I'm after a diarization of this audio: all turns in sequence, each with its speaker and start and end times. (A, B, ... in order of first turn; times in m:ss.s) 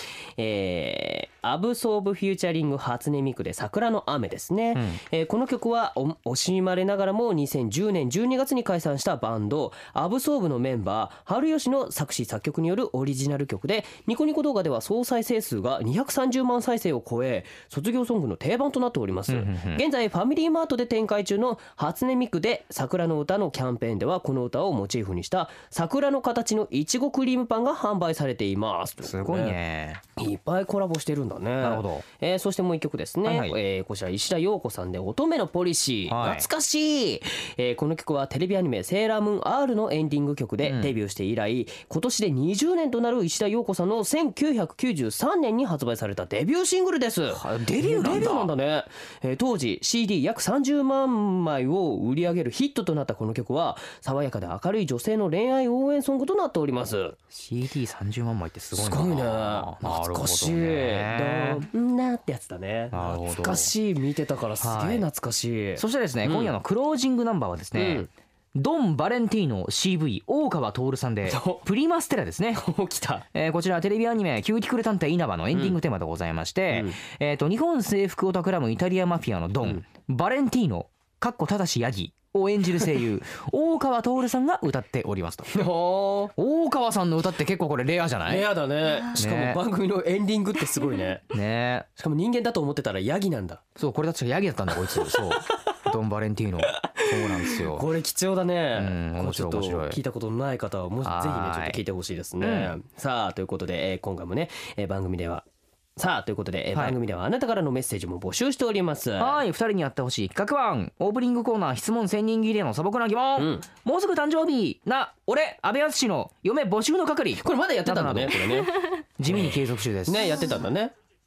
0:00.4-0:29.6 A
0:04.7-0:05.0 B
0:19.3-0:19.8 B
0:29.0-0:30.0 B
0:30.2-0:57.2 A
0:31.6-0:32.0 B
0:33.2-0:33.5 B
0:36.1-0:36.5 B
0:40.6-0:40.9 B
0:47.3-0:48.5 B
0:57.3-1:01.7 B
0:58.7-1:06.6 A
1:02.9-1:03.7 B
1:04.6-1:05.0 B
1:05.8-1:12.6 B
1:07.7-1:08.1 A
1:11.2-1:11.6 A
1:12.5-1:13.2 A
1:13.3-1:28.5 B
1:15.5-1:15.8 A
1:16.7-1:17.0 A
1:25.5-1:26.3 A
1:28.3-1:31.2 A
1:29.2-1:29.6 B
1:31.3-1:31.8 B
1:32.0-1:33.6 A
1:33.8-1:37.9 B
1:34.7-1:35.6 A
1:36.7-1:45.4 A
1:38.7-1:40.0 B
1:41.0-1:41.8 B
1:42.4-1:42.7 B
1:46.0-1:49.4 A
1:46.7-1:47.0 B
1:49.2-1:58.6 B
1:53.4-1:53.7 A
1:57.4-2:00.9 A
1:59.2-2:00.4 B